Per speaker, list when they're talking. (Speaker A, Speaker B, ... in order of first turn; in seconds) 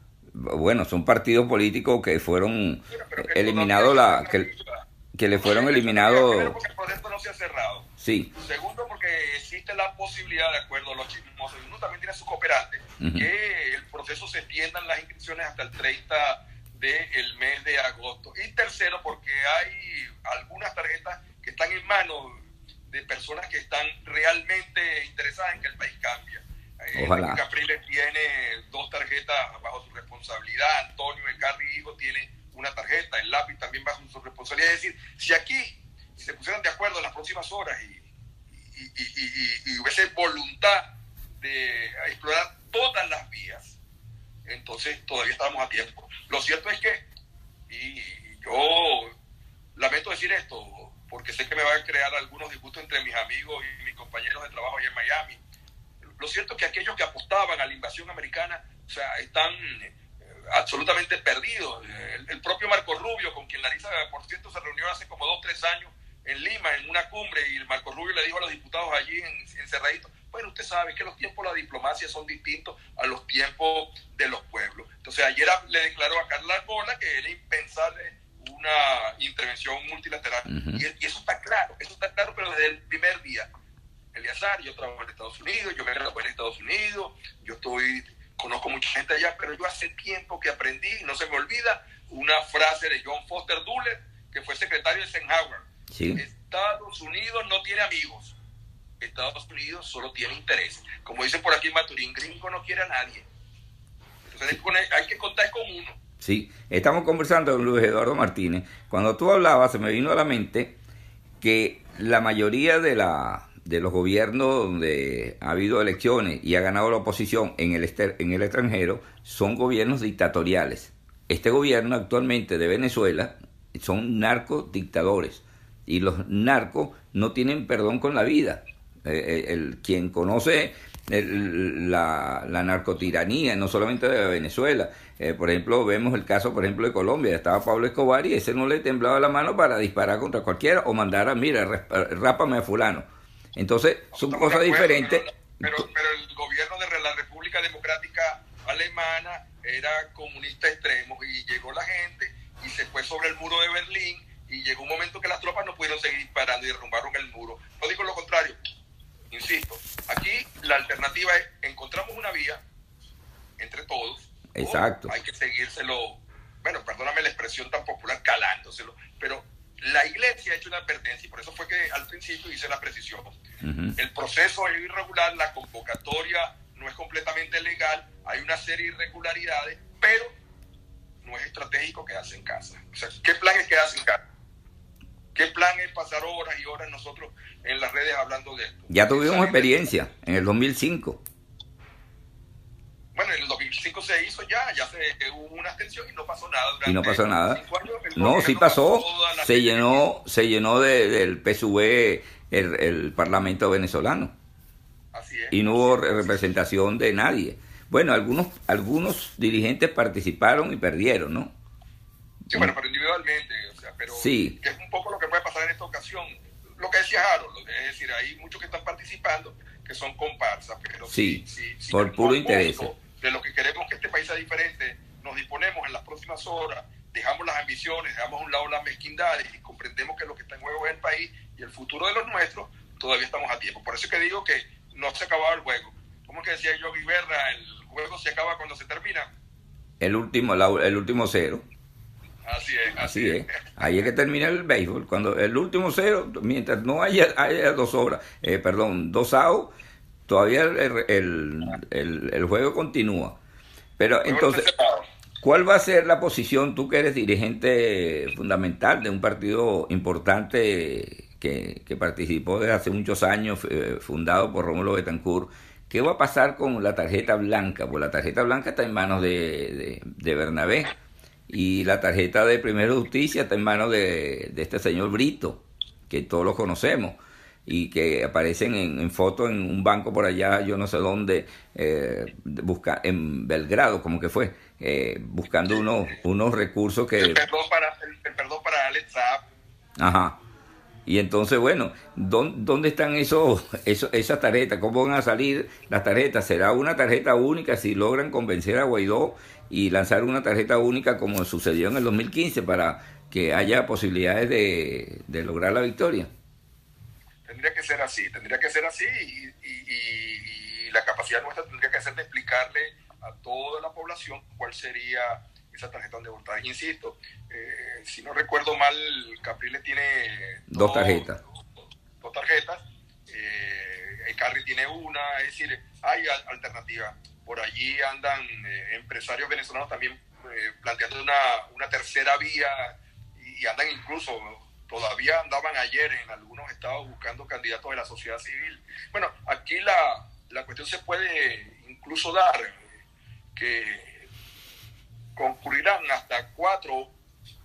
Speaker A: 0.3-4.5, 5.1-6.6, 8.0-8.3, 13.0-13.3, 26.9-27.4, 80.5-80.8, 95.9-96.2, 106.2-110.8, 111.4-145.9, 164.5-165.1, 173.6-174.0, 188.9-191.2, 196.8-197.6, 198.2-204.3, 205.5-211.5, 214.1-214.6, 221.1-222.9, 240.0-241.6, 243.0-249.7, 250.3-253.4, 254.0-254.7, 255.4-270.9, 271.5-287.4, 290.0-290.4, 291.1-306.3, 320.7-321.4
Speaker B: 2.9-38.0, 38.6-43.8, 44.5-47.1, 47.7-49.1, 49.8-55.4, 56.2-60.0, 60.5-83.5, 84.1-98.3, 99.0-103.3, 104.3-106.0, 144.1-158.6, 159.3-162.6, 163.6-173.4, 173.9-180.3, 181.2-184.2, 185.3-189.9, 193.1-200.0, 205.1-206.3, 212.5-239.3, 242.4-244.1, 254.2-255.1, 287.2-289.4, 307.5-321.3, 322.2-342.8, 343.6-344.3, 345.4-347.1